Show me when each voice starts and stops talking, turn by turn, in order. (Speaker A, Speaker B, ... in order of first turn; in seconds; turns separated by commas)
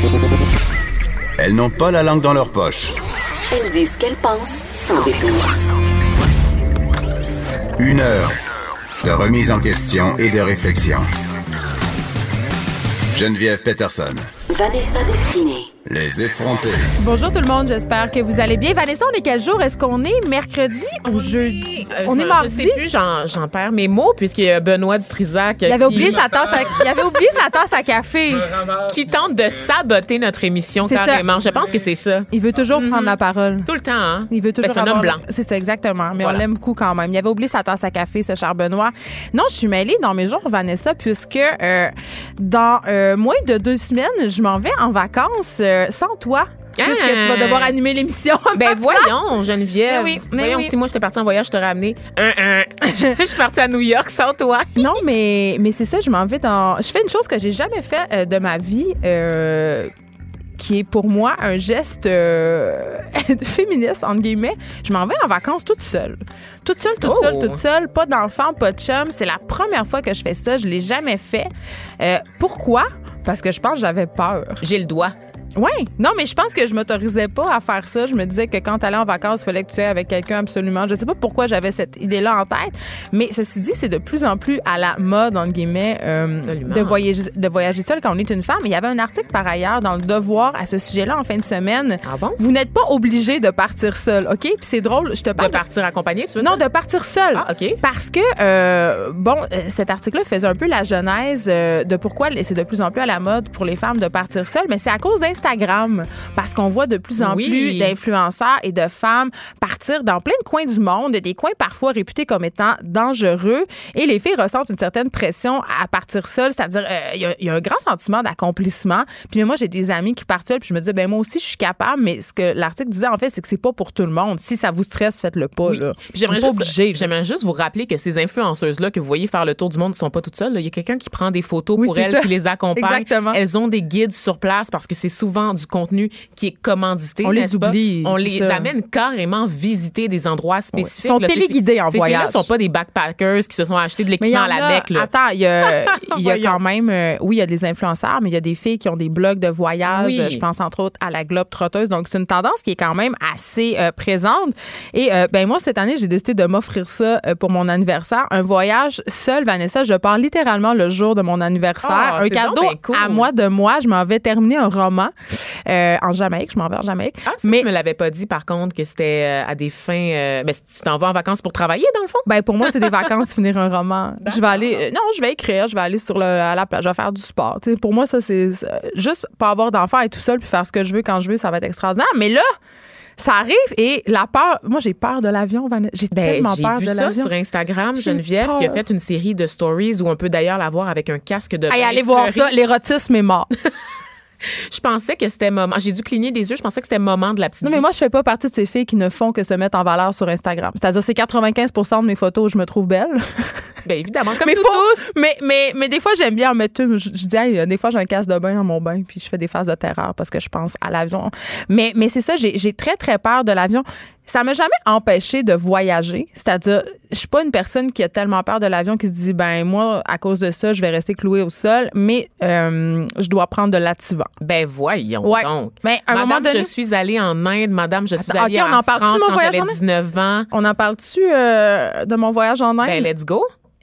Speaker A: 1.4-2.9, Speaker B: 3.5-5.5, Speaker A: 7.8-8.3, Speaker A: 9.0-11.1, Speaker A: 13.1-14.3, Speaker B: 14.5-15.7, Speaker A: 15.8-16.9, Speaker C: 17.0-22.8, Speaker D: 21.1-27.2, Speaker C: 25.6-28.5, Speaker D: 28.9-35.2, Speaker C: 30.9-31.2, Speaker C: 32.3-33.7, Speaker C: 34.3-49.1, Speaker D: 36.2-36.4, Speaker D: 46.8-47.7, Speaker D: 48.5-55.0, Speaker C: 49.9-50.7, Speaker C: 54.8-59.9, Speaker C: 60.6-74.6, Speaker D: 67.0-67.6, Speaker D: 74.6-75.1, Speaker C: 75.6-95.6, Speaker D: 86.5-87.0, Speaker D: 92.0-92.4, Speaker D: 95.3-96.6, Speaker C: 96.4-127.1, Speaker D: 97.3-97.8, Speaker D: 107.2-107.9, Speaker D: 125.6-145.1, Speaker C: 131.8-133.4, Speaker C: 137.2-138.7, Speaker C: 140.7-142.5, Speaker C: 144.2-165.1, Speaker D: 145.6-146.6, Speaker D: 149.9-150.4, Speaker D: 161.8-163.3, Speaker C: 165.7-167.7, Speaker D: 167.2-172.9, Speaker C: 172.2-182.4, Speaker D: 174.2-174.8, Speaker C: 183.2-187.3, Speaker D: 186.1-192.5, Speaker C: 188.0-188.8, Speaker C: 191.7-193.5, Speaker D: 194.7-197.8, Speaker C: 197.6-203.7, Speaker D: 203.8-205.1, Speaker C: 204.4-224.3, Speaker D: 224.4-230.5, Speaker C: 225.2-226.7, Speaker C: 228.2-229.8, Speaker C: 230.5-233.1, Speaker D: 232.8-233.5